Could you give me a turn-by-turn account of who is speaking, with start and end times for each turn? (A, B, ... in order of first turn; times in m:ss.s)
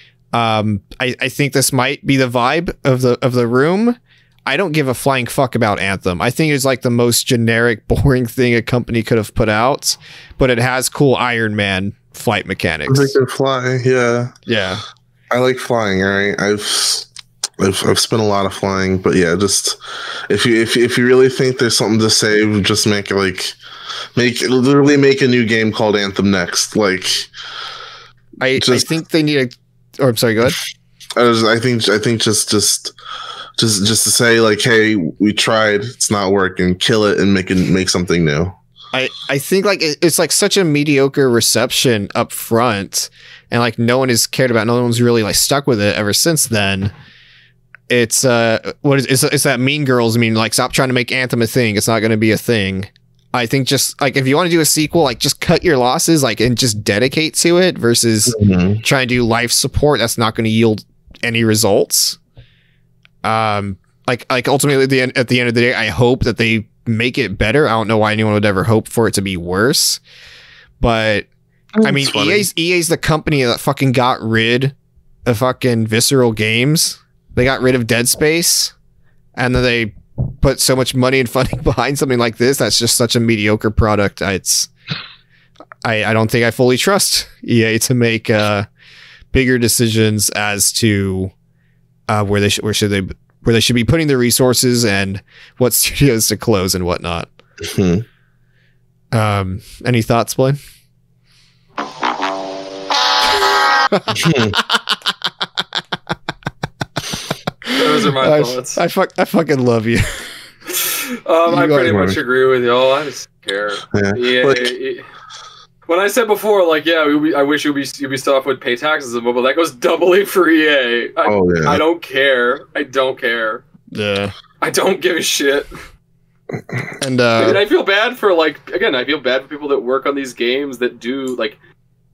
0:00.3-0:13.1 A
0:12.9-0:14.3 B
0:14.5-0:14.8 A
0:15.3-0:17.1 B
0:17.6-0:19.8 B
0:20.3-0:23.6 B
0:24.2-0:27.3 B
0:28.4-0:30.6 A
0:28.6-0:28.9 B
0:31.2-0:32.9 B
0:33.6-0:38.6 B
0:38.9-0:46.9 A
0:47.9-1:02.2 A
0:58.3-0:58.8 B
1:03.2-1:10.0 A
1:10.8-1:11.3 A
1:11.7-1:12.5 B
1:11.8-1:14.7 A
1:15.2-1:18.7 A
1:19.4-1:24.7 A
1:25.8-1:28.7 A
1:29.3-1:31.3 A
1:32.1-1:37.3 A
1:37.6-1:38.0 B
1:39.1-1:40.6 A
1:43.9-1:45.0 A
1:44.1-1:44.6 B
1:47.7-1:48.8 C
1:48.2-1:50.2 A
1:50.7-1:55.1 C
1:51.5-1:51.9 A
1:51.8-1:52.2 B
1:53.9-1:54.7 B
1:55.9-2:03.6 C
2:01.2-2:01.8 B
2:03.9-2:04.3 A
2:04.6-2:05.7 C
2:07.0-2:07.6 A
2:07.4-2:11.6 C